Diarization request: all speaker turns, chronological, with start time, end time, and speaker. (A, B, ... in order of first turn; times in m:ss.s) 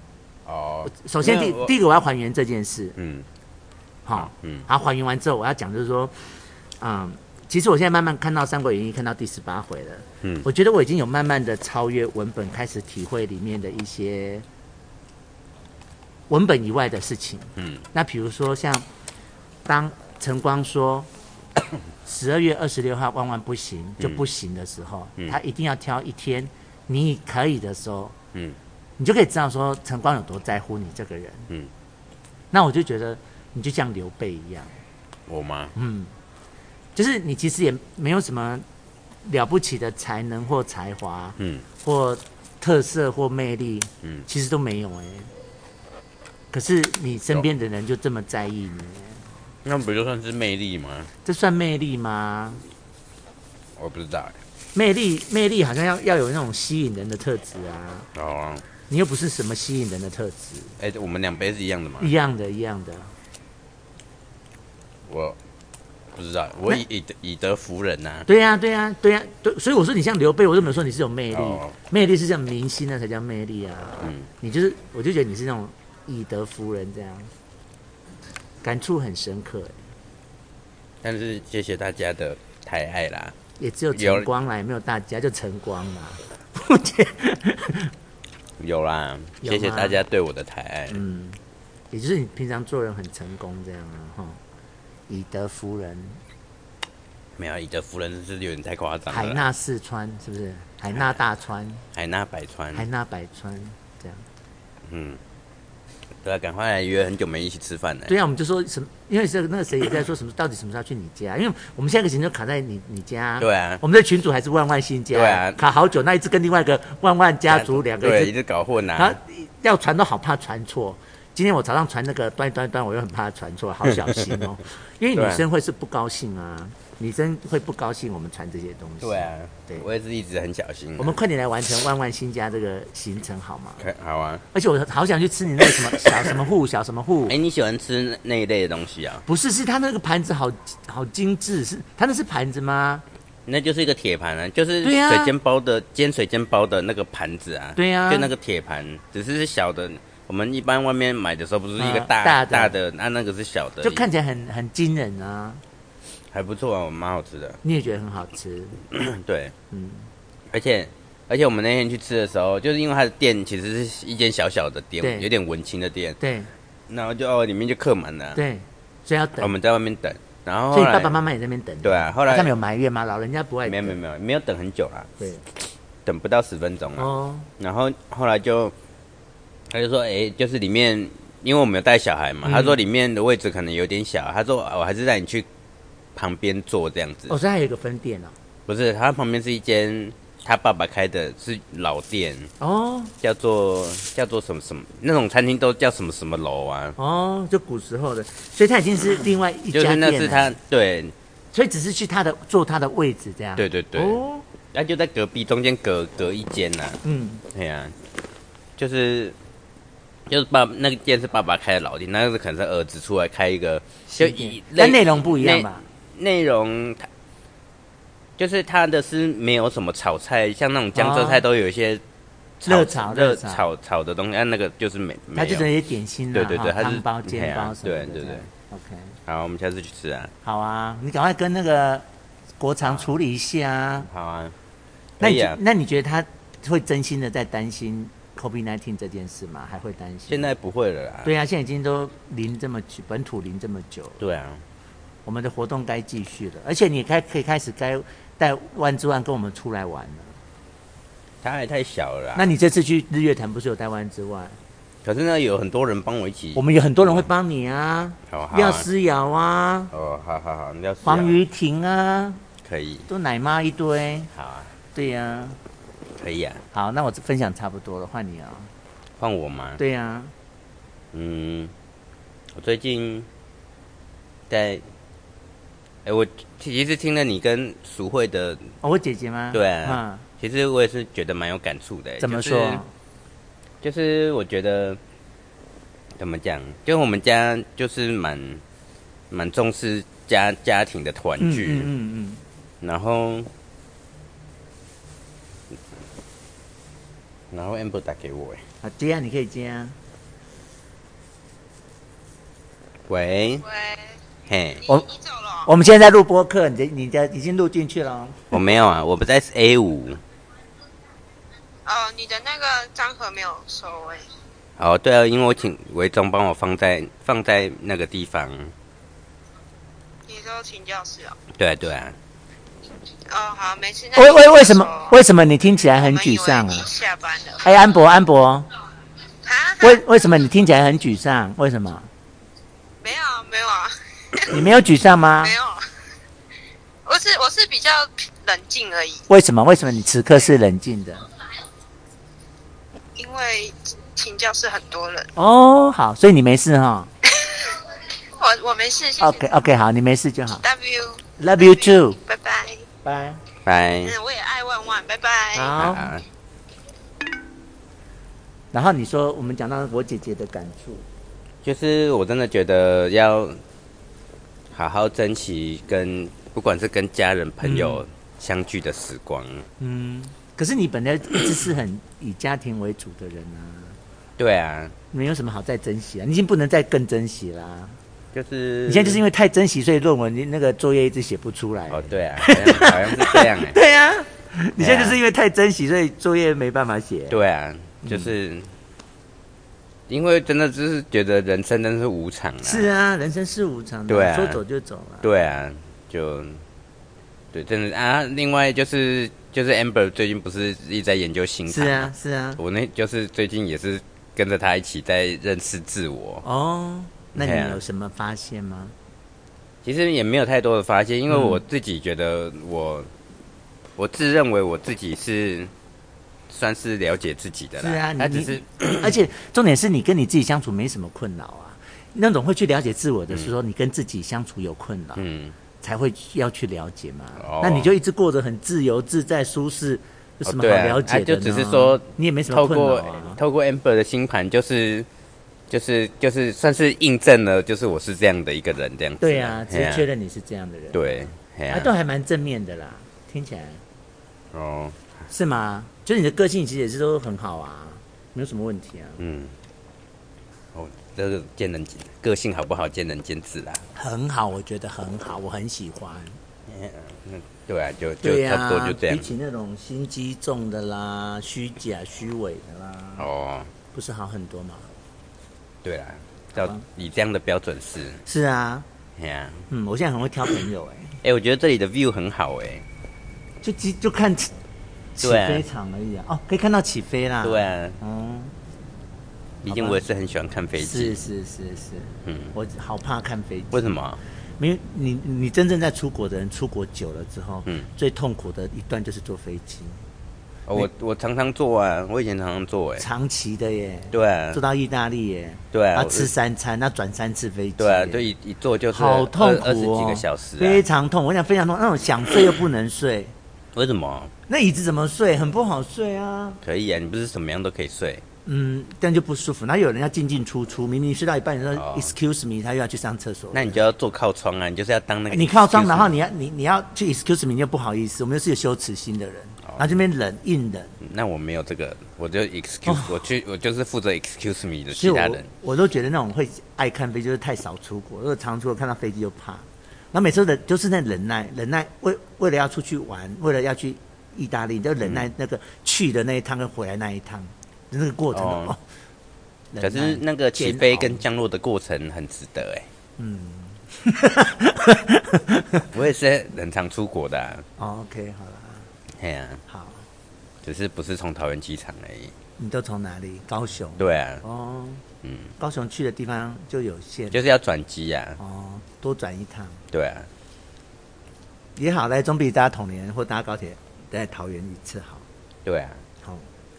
0:00.5-0:01.8 A
0:00.8-0:03.0 B
0:03.0-0:03.3 A
0:04.1-0:06.1 B
0:04.2-0:04.7 A
0:06.8-0:14.4 B
0:16.3-0:18.8 B
0:17.6-0:17.8 A
0:19.7-0:21.1 B
0:22.0-0:28.2 B
0:24.0-0:24.2 A
0:29.0-0:31.5 B
0:32.5-0:34.8 B
0:35.3-0:35.7 A
0:35.8-0:36.1 B
0:37.0-0:38.6 B
0:39.2-0:45.3 B
0:41.4-0:41.6 A
0:46.5-0:49.3 B
0:49.6-0:51.1 A
0:51.2-0:52.6 B
0:53.8-0:54.4 A
0:54.8-0:58.1 B
0:58.2-0:58.6 A
0:58.9-1:00.7 B
1:00.8-1:02.1 A
1:02.0-1:03.1 B
1:05.1-1:05.4 A
1:06.1-1:08.3 A
1:08.3-1:17.3 B
1:11.3-1:11.7 A
1:14.0-1:14.3 A
1:18.6-1:19.8 B
1:21.0-1:23.4 A
1:23.6-1:27.9 B
1:23.9-1:24.3 A
1:28.6-1:31.0 A
1:29.4-1:30.0 B
1:30.9-1:31.4 B
1:31.9-1:34.4 B
1:35.1-1:36.2 B
1:37.4-1:39.4 A
1:39.1-1:41.8 B
1:41.9-1:42.9 A
1:42.7-1:44.2 B
1:44.9-1:45.2 A
1:46.2-1:48.1 A
1:48.1-1:58.3 B
1:53.4-1:53.8 A
1:55.1-1:55.6 A
1:57.5-1:59.2 A
1:59.0-2:09.9 B
2:05.2-2:05.4 A
2:09.0-2:11.2 A
2:11.0-2:13.9 B
2:13.8-2:14.4 A
2:14.5-2:17.4 B
2:15.9-2:16.3 A
2:17.3-2:19.2 A
2:19.3-2:23.0 B
2:23.5-2:34.1 A
2:24.8-2:25.4 B
2:27.8-2:28.3 B
2:31.8-2:32.8 B
2:33.8-2:35.6 B
2:36.3-2:37.6 A
2:37.6-2:38.8 B
2:38.9-2:39.5 A
2:39.7-2:40.1 B
2:40.5-2:46.2 A
2:45.0-2:45.3 B
2:46.2-2:46.5 B
2:46.9-2:48.4 A
2:48.4-2:49.6 B
2:49.4-2:51.2 A
2:50.7-2:54.0 B
2:51.8-2:52.5 A
2:53.7-2:55.1 A
2:56.0-2:58.8 A
2:57.0-2:57.5 B
2:59.7-3:05.5 A
3:02.4-3:02.8 B
3:06.2-3:07.4 A
3:07.3-3:08.4 B
3:08.7-3:12.5 A
3:12.6-3:13.1 B
3:13.2-3:17.0 A
3:17.0-3:20.6 B
3:19.7-3:21.1 A
3:21.5-3:24.4 B
3:23.6-3:24.2 A
3:24.7-3:28.0 A
3:27.0-3:27.4 B
3:28.8-3:29.4 A
3:30.3-3:37.1 A
3:34.1-3:35.8 B
3:38.4-3:42.0 A
3:41.0-3:41.4 B
3:42.6-3:45.7 A
3:42.6-3:43.7 B
3:45.4-3:49.2 B
3:46.3-3:48.5 A
3:49.3-3:50.3 A
3:50.4-3:52.0 B
3:52.6-3:54.1 B
3:52.8-3:53.1 A
3:54.1-3:54.6 A
3:55.2-3:55.6 A
3:55.2-4:00.5 B
4:00.3-4:01.3 A
4:01.2-4:04.2 B
4:04.2-4:04.6 A
4:05.3-4:10.4 B
4:11.4-4:12.5 A
4:12.4-4:14.6 B
4:15.0-4:17.3 A
4:16.6-4:19.9 B
4:18.3-4:18.9 A
4:19.9-4:21.4 A
4:21.0-4:22.4 B
4:22.6-4:23.1 A
4:23.1-4:24.3 B
4:24.3-4:24.7 A
4:24.9-4:25.6 B
4:26.2-4:26.6 A
4:26.7-4:28.7 B
4:29.2-4:29.8 A
4:29.8-4:30.3 B
4:31.1-4:31.7 A
4:32.5-4:33.3 A
4:34.5-4:34.8 A
4:36.0-4:38.7 A
4:38.8-4:40.2 B
4:39.5-4:42.8 A
4:42.2-4:42.9 B
4:43.8-4:45.0 A
4:46.2-4:48.6 A
4:49.3-4:51.9 A
4:51.4-4:52.4 B
4:52.8-4:53.5 A
4:57.5-4:58.6 A
4:58.8-5:00.0 B
5:03.1-5:03.6 A
5:03.7-5:04.1 C
5:04.5-5:04.8 A
5:04.8-5:05.7 C
5:05.6-5:08.6 B
5:08.5-5:10.2 A
5:11.9-5:14.3 C
5:14.8-5:18.7 A
5:20.3-5:21.4 C
5:21.5-5:22.2 A
5:23.3-5:25.2 C
5:24.2-5:26.9 B
5:25.9-5:27.7 C
5:27.6-5:28.7 B
5:29.4-5:30.0 C
5:29.8-5:32.1 B
5:33.0-5:34.6 C
5:34.5-5:35.6 B
5:35.4-5:35.8 C
5:37.1-5:39.3 C
5:39.3-5:41.3 B
5:43.2-5:45.3 C
5:45.4-5:47.1 B
5:47.3-5:47.8 C
5:48.4-5:49.5 C
5:49.2-5:50.6 B
5:50.6-5:52.9 C
5:51.4-5:52.2 B
5:53.0-5:53.4 B
5:53.6-5:54.2 A
5:54.0-5:55.8 C
5:55.6-5:56.1 B
5:55.8-5:56.2 A
5:58.7-6:01.0 B
6:01.6-6:03.6 A
6:04.7-6:09.7 A
6:07.6-6:08.0 B
6:09.8-6:14.0 B
6:14.4-6:15.0 A
6:15.1-6:18.0 B
6:18.3-6:19.2 A
6:18.9-6:27.4 B
6:21.9-6:23.8 A
6:24.8-6:25.2 A
6:27.3-6:28.7 A
6:28.0-6:28.3 B
6:30.1-6:32.9 A
6:32.6-6:35.3 B
6:34.1-6:34.6 A
6:35.2-6:36.6 A
6:37.5-6:46.4 A
6:41.7-6:42.6 B
6:46.4-6:48.9 B
6:47.4-6:47.8 A
6:49.8-6:53.1 A
6:51.3-6:51.6 B
6:54.0-6:55.7 A
6:56.5-6:59.2 A
6:57.8-7:05.2 B
7:05.2-7:05.6 A
7:05.8-7:13.4 B
7:07.4-7:07.9 A
7:10.5-7:15.1 A
7:15.7-7:20.1 A
7:19.2-7:21.1 B
7:20.9-7:21.9 A
7:21.7-7:23.8 B
7:24.5-7:25.0 A
7:25.3-7:29.2 B
7:29.2-7:29.6 A
7:30.7-7:33.9 A
7:34.0-7:36.4 B
7:36.7-7:39.3 A
7:38.2-7:43.3 B
7:43.2-7:43.7 A
7:43.9-7:44.9 B
7:45.8-7:48.2 A
7:46.6-7:46.9 B
7:48.2-7:48.9 B
7:49.2-7:49.7 A
7:49.7-7:51.2 B
7:51.2-7:52.8 A
7:53.6-7:54.5 B
7:55.2-7:58.5 B
7:55.2-7:55.7 A
7:57.4-7:58.0 A
7:59.6-8:01.2 A
7:59.7-8:00.0 B
8:00.8-8:03.8 B
8:02.2-8:02.5 A
8:03.7-8:04.2 A
8:04.6-8:10.0 B
8:10.7-8:13.1 A
8:13.0-8:18.3 B
8:14.1-8:14.6 A
8:15.7-8:16.3 A
8:17.8-8:20.8 A
8:18.9-8:23.3 B
8:23.7-8:24.3 A
8:24.5-8:26.6 B
8:26.6-8:28.2 A
8:28.5-8:33.8 B
8:31.8-8:32.1 A
8:33.5-8:36.2 A
8:35.3-8:40.9 B
8:39.7-8:40.0 A
8:41.0-8:45.5 A
8:42.9-8:43.2 B
8:44.9-8:58.8 B
8:55.0-8:55.3 A
8:58.3-8:58.8 A
8:59.7-9:01.2 B
8:59.8-9:02.9 A
9:03.2-9:05.9 B
9:05.9-9:07.6 A
9:07.8-9:08.9 B
9:09.2-9:09.6 A
9:09.7-9:10.0 B
9:10.6-9:12.3 A
9:12.6-9:15.0 B
9:14.0-9:14.4 A
9:15.2-9:15.5 A
9:15.6-9:17.4 B
9:17.3-9:18.4 A
9:18.4-9:19.8 B
9:19.9-9:20.3 A
9:21.8-9:25.2 B
9:25.6-9:26.0 A